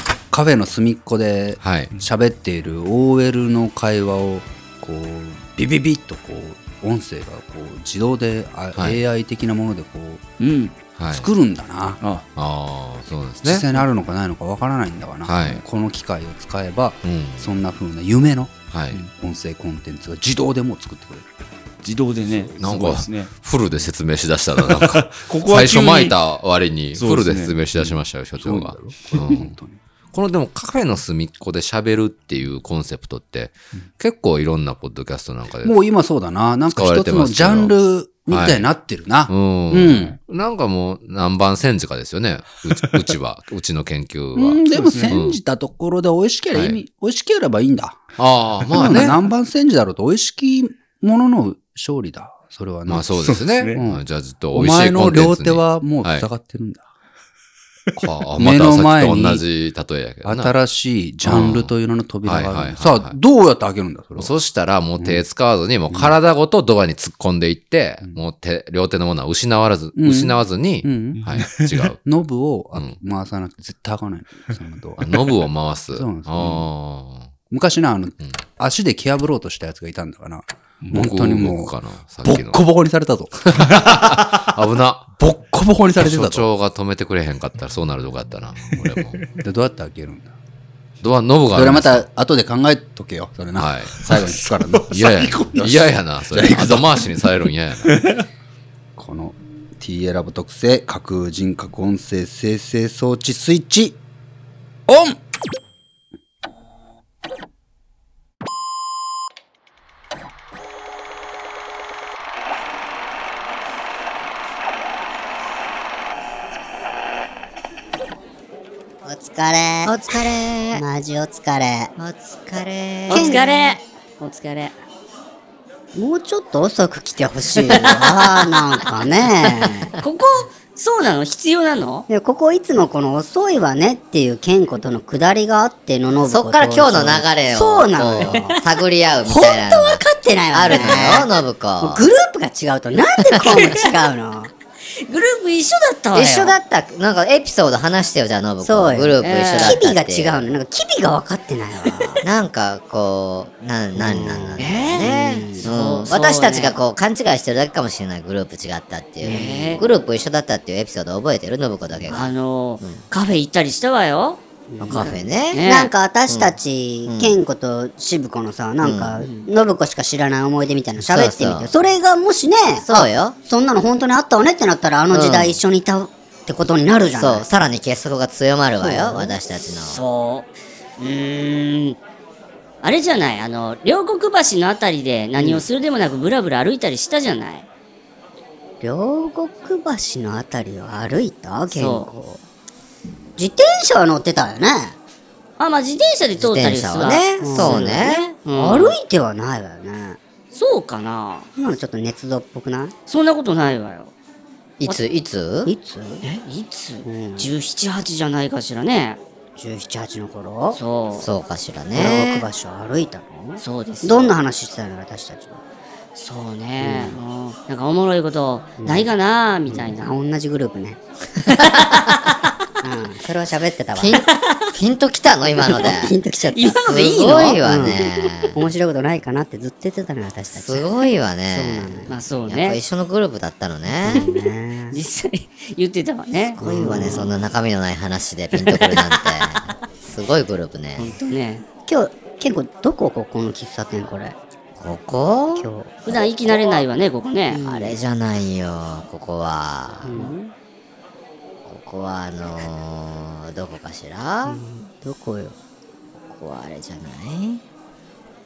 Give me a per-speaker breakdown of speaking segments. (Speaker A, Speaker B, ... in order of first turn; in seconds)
Speaker A: 0.3-10.2, 11.1-12.0, 13.4-21.3, 27.8-29.8, 35.6-40.2, 44.4-48.0, 48.7-53.2, 53.7-56.8, 58.4-59.5, 60.2-64.3, 65.0-65.2, 65.9-66.2, 70.0-71.2, 72.0-75.4, 75.9-76.7, 77.5-84.3, 85.2-86.5, 89.4-90.3, 91.5-97.1, 99.0-104.0, 104.9-105.2
Speaker B: 1.6-1.9, 11.0-11.3, 12.3-13.7, 15.3-15.6, 17.0-17.5, 18.7-19.0, 22.6-29.5, 30.1-35.8, 36.7-37.8, 38.3-38.7, 39.3-45.4, 46.5-46.8, 48.2-49.3, 52.9-56.3, 58.0-60.5, 61.2-63.1, 64.2-72.0, 75.0-77.3, 80.9-82.6, 83.5-85.2, 86.0-89.2, 91.0-92.0, 93.6-94.3, 94.9-97.9
Speaker C: 10.4-10.8, 21.8-23.3, 24.6-26.2, 27.0-27.6, 29.1-29.4, 44.7-45.2, 53.2-53.8, 71.1-71.9, 88.7-89.2, 94.5-95.5, 97.9-98.2
Speaker D: 119.0-119.9, 120.7-121.9, 123.1-123.8, 125.9-129.9, 132.1-138.6, 139.3-141.3, 141.8-144.5, 148.6-152.2, 154.0-155.7, 159.2-159.8, 164.7-177.4, 178.8-179.3, 185.4-185.7, 188.8-192.4, 193.4-195.0, 197.4-200.2, 201.6-202.9, 205.7-206.2, 207.0-207.5, 209.6-210.8, 211.9-215.6, 216.8-217.2, 218.8-219.1, 219.7-221.0, 222.8-224.2, 225.7-228.0, 228.5-230.8, 231.5-232.1, 234.1-235.0, 236.6-237.3, 241.9-244.3, 245.6-246.0, 247.5-247.9, 250.0-250.5, 254.5-255.6
Speaker E: 119.8-120.8, 122.0-123.4, 136.2-142.1, 143.4-143.7, 146.1-150.6, 152.2-163.0, 164.8-165.7, 166.3-166.6, 167.1-167.4, 168.8-169.2, 171.0-171.7, 172.8-173.4, 175.1-175.6, 177.2-180.0, 196.4-198.3, 204.8-205.7, 211.2-212.5, 223.9-226.1, 226.9-228.5, 230.5-234.2, 236.6-241.1, 244.8-246.2, 247.6-250.2, 251.7-254.6, 256.3-257.6
Speaker F: 123.1-124.8, 130.0-132.1, 140.7-141.0, 145.1-146.6, 149.2-149.8, 154.6-156.8, 159.2-159.9, 162.1-165.9, 169.2-169.5, 179.8-182.0, 182.8-187.7, 191.7-192.1, 195.6-199.0, 200.5-201.5, 203.1-204.1, 206.2-209.2, 210.7-211.3, 213.6-214.3, 216.2-220.1, 224.3-224.7, 226.5-228.3, 232.1-232.8, 234.9-237.2, 238.6-239.2, 241.0-241.7, 246.1-247.6